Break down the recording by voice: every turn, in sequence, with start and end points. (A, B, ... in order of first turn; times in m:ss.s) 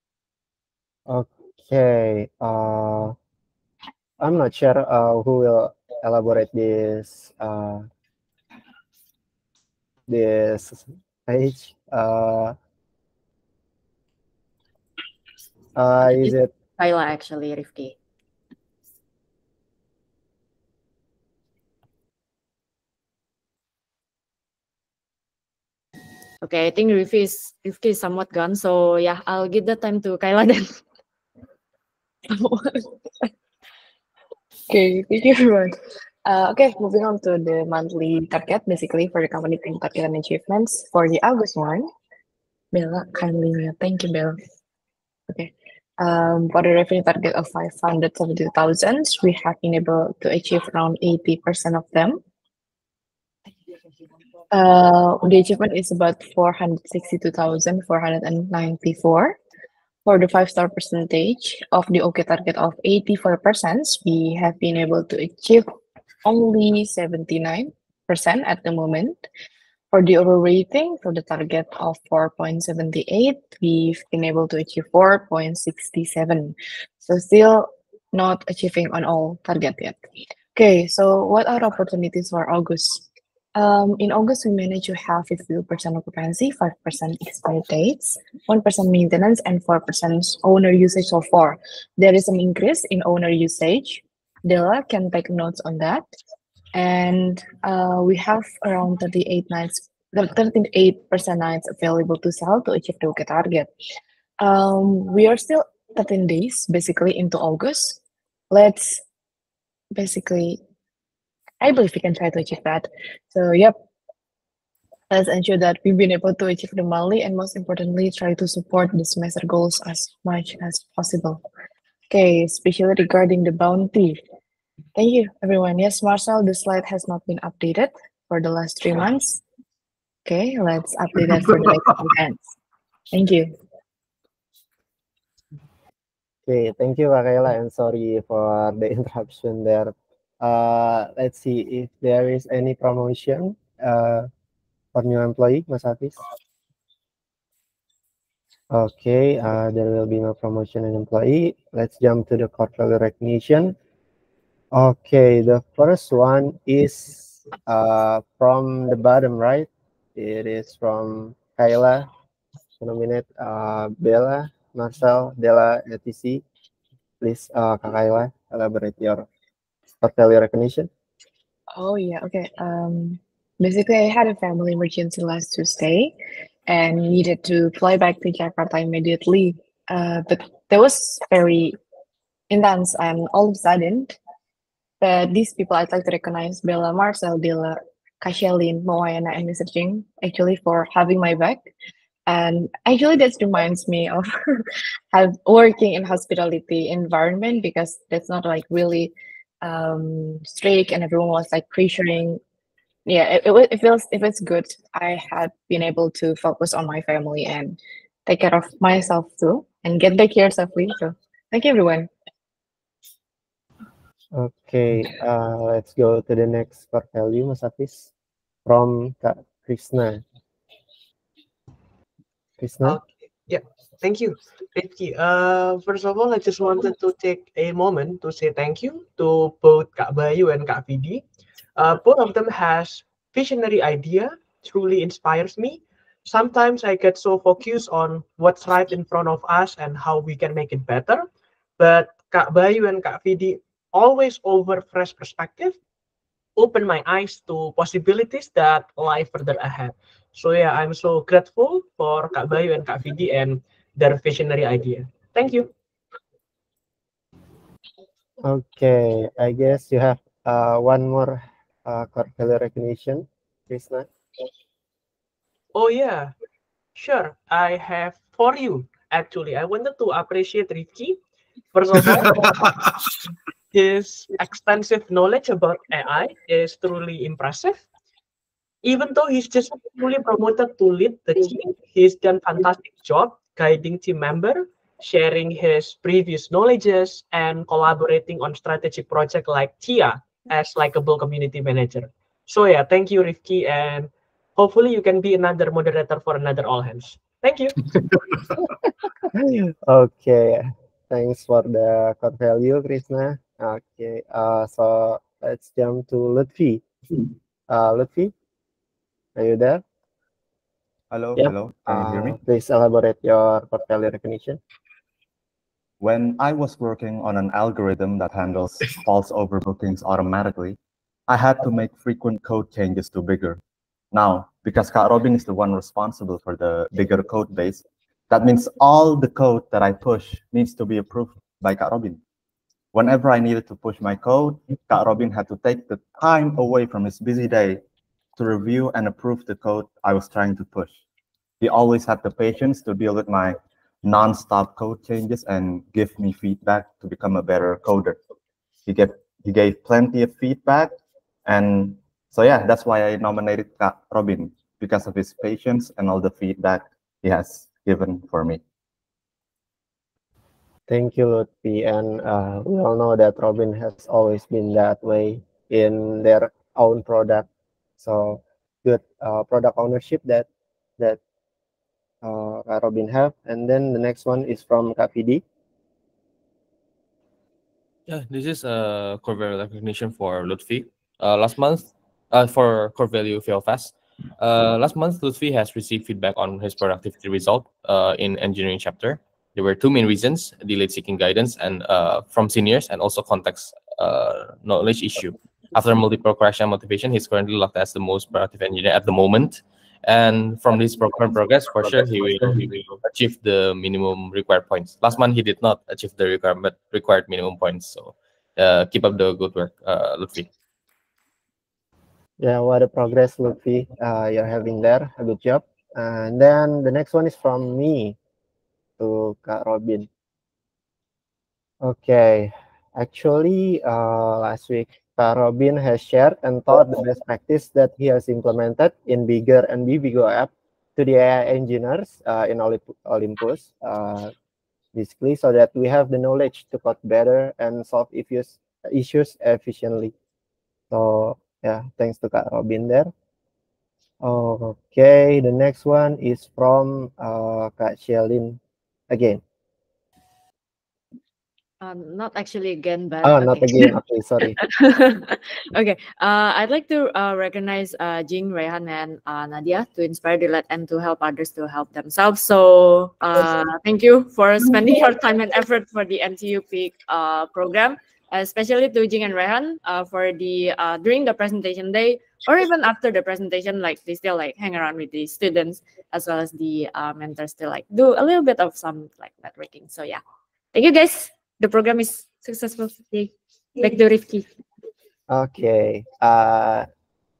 0:01.1-0:03.1 A
0:04.2-0:07.8 A
0:10.1-0:12.5 A
0:15.8-0:16.5 A
0:16.0-0:18.0 B
0:26.4-0:30.8 B
0:32.3-0:32.9 B
0:34.7-0:41.9 C
0:42.7-0:44.4 C
0:45.3-0:52.2 C
0:54.5-0:59.4 C
1:00.0-1:05.7 C
1:06.2-1:09.2 C
1:09.9-1:20.0 C
1:20.5-1:36.1 C
1:36.7-1:43.7 C
1:44.4-1:48.0 C
1:48.5-1:49.0 C
1:49.9-1:50.6 C
1:51.6-1:53.8 C
1:55.1-2:01.4 C
2:02.1-2:04.2 C
2:05.0-2:09.4 C
2:10.2-2:12.4 C
2:13.1-2:13.5 C
2:16.5-2:24.3 A
2:24.9-2:26.2 A
2:28.7-2:33.7 A
2:34.7-2:42.1 A
2:42.8-2:46.4 A
2:47.2-2:49.2 A
2:50.0-2:50.9 A
2:51.8-2:56.1 C
2:56.7-3:01.8 C
3:02.5-3:04.2 C
3:05.0-3:11.7 C
3:12.3-3:22.4 C
3:23.0-3:32.1 C
3:34.3-3:38.1 A
3:38.6-3:40.2 A
3:42.6-3:43.0 A
3:42.8-3:51.2 D
3:51.8-4:01.3 D
4:01.8-4:05.8 D
4:06.6-4:15.7 D
4:18.4-4:24.1 A
4:25.7-4:26.3 D
4:26.9-4:31.2 D
4:31.7-4:32.9 D
4:33.7-4:37.8 D
4:38.8-4:57.9 D
4:59.3-5:06.8 A
5:07.7-5:08.3 A
5:09.4-5:09.8 A
5:11.1-5:12.4 E
5:11.4-5:14.6 A
5:16.0-5:23.6 E
5:24.1-5:32.2 E
5:32.9-5:37.8 E
5:38.4-5:41.0 E
5:41.6-5:48.2 E
5:48.8-5:58.6 E
6:00.9-6:07.5 A
6:08.0-6:10.5 A
6:12.2-6:15.4 A
6:18.1-6:50.5 F
6:52.4-6:58.2 A
6:59.0-7:00.1 A
7:01.8-7:14.3 A
7:14.9-7:20.1 A
7:20.9-7:23.1 A
7:24.2-7:28.6 A
7:29.1-7:29.4 A
7:31.8-8:00.2 B
7:33.2-7:34.6 A
8:00.7-8:04.4 B
8:05.3-8:06.9 A